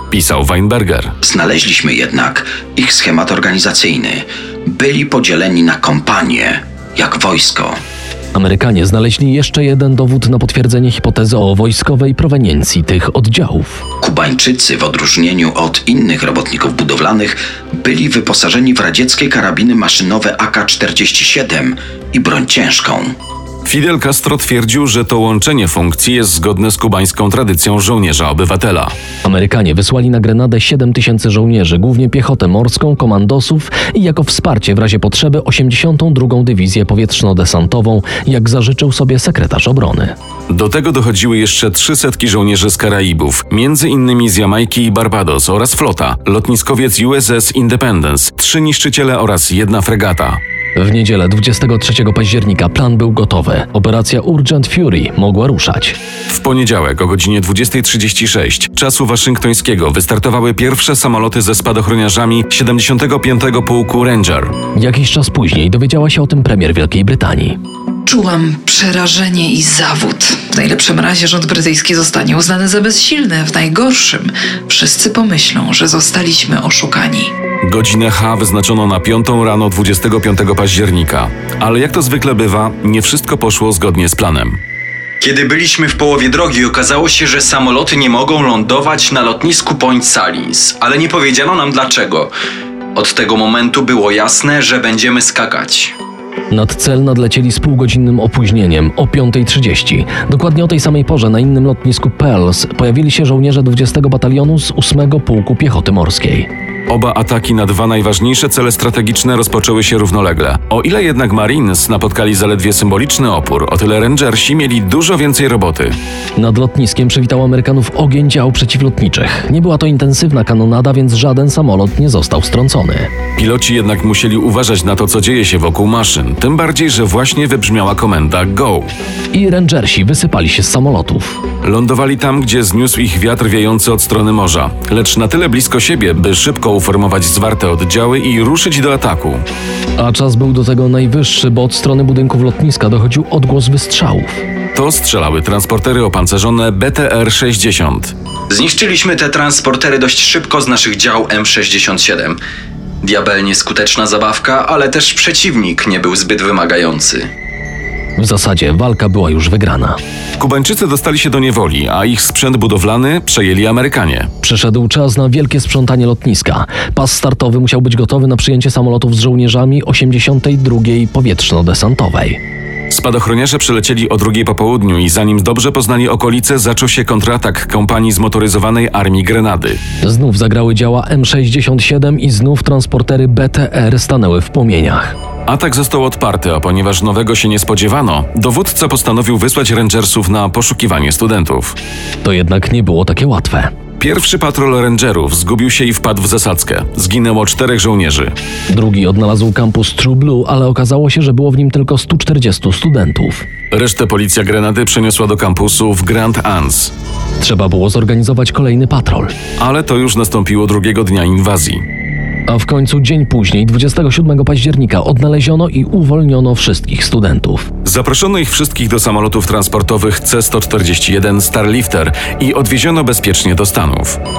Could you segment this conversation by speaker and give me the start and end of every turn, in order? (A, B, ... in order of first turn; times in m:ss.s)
0:00.1-0:01.1 A
0:01.2-0:07.8 B
0:08.4-0:13.8 C
0:14.0-0:23.1 B
0:23.6-0:28.9 A
0:29.2-0:40.2 C
0:40.5-0:50.4 A
0:50.8-0:56.0 C
0:56.3-1:04.5 A
1:04.8-1:07.6 C
1:08.1-1:17.3 D
1:17.6-1:24.6 A
1:25.2-1:32.3 E
1:33.0-1:35.9 E
1:36.5-1:46.5 C
1:46.9-1:56.0 A
1:56.4-2:03.1 C
2:03.4-2:08.9 A
2:09.3-2:11.4 C
2:11.6-2:19.4 A
2:20.0-2:24.4 C
2:24.8-2:28.2 A
2:28.5-2:32.4 E
2:33.0-2:37.2 E
2:38.2-2:40.0 C
2:40.4-2:44.3 A
2:44.4-2:52.4 C
2:52.9-2:59.8 A
3:00.0-3:05.2 C
3:05.5-3:11.8 A
3:12.2-3:13.7 C
3:14.0-3:18.4 A
3:18.7-3:23.5 C
3:23.7-3:26.9 A
3:27.4-3:29.3 C
3:29.6-3:31.8 A
3:32.5-3:37.7 C
3:37.8-3:44.2 A